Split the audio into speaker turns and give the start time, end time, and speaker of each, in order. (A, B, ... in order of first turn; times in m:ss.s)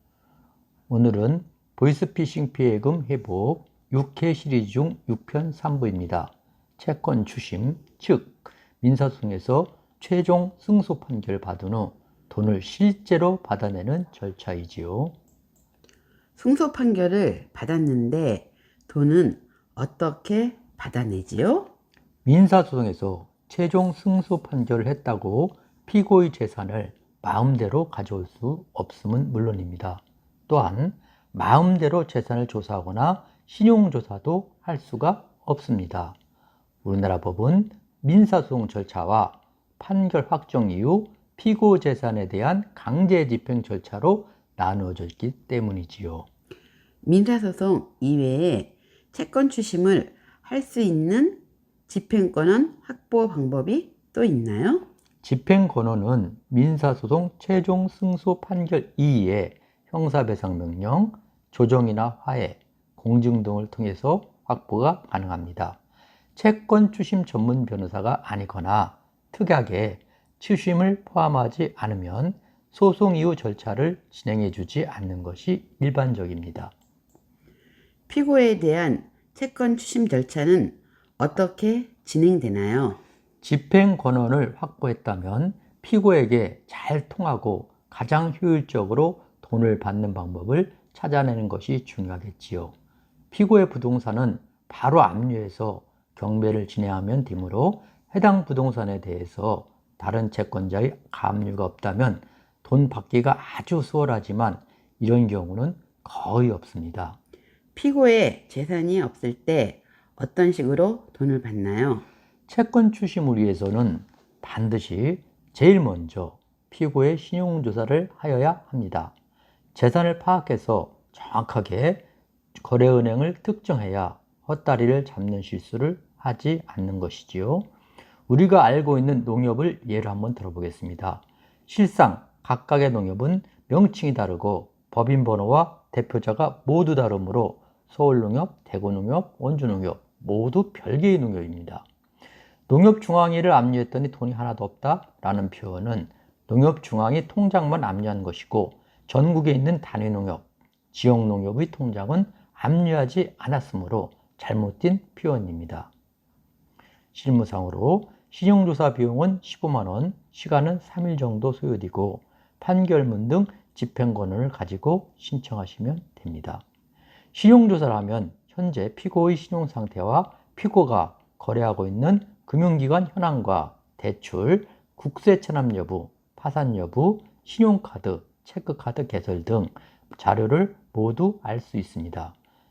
0:00.9-0:15.1 A
0:16.4-0:21.7 B
0:22.2-0:36.2 A
0:36.8-0:46.3 A
0:47.0-0:54.8 B
0:55.2-1:05.8 A
1:06.4-1:16.7 A
1:18.1-1:23.0 B
1:23.4-1:32.7 A
1:33.3-1:47.2 A
1:47.8-1:52.0 B
1:52.5-1:59.1 A
1:59.7-2:02.0 A
2:02.6-2:07.7 A
2:08.3-2:21.8 A
2:22.7-2:35.9 A
2:37.1-2:46.6 A
2:47.3-3:02.3 A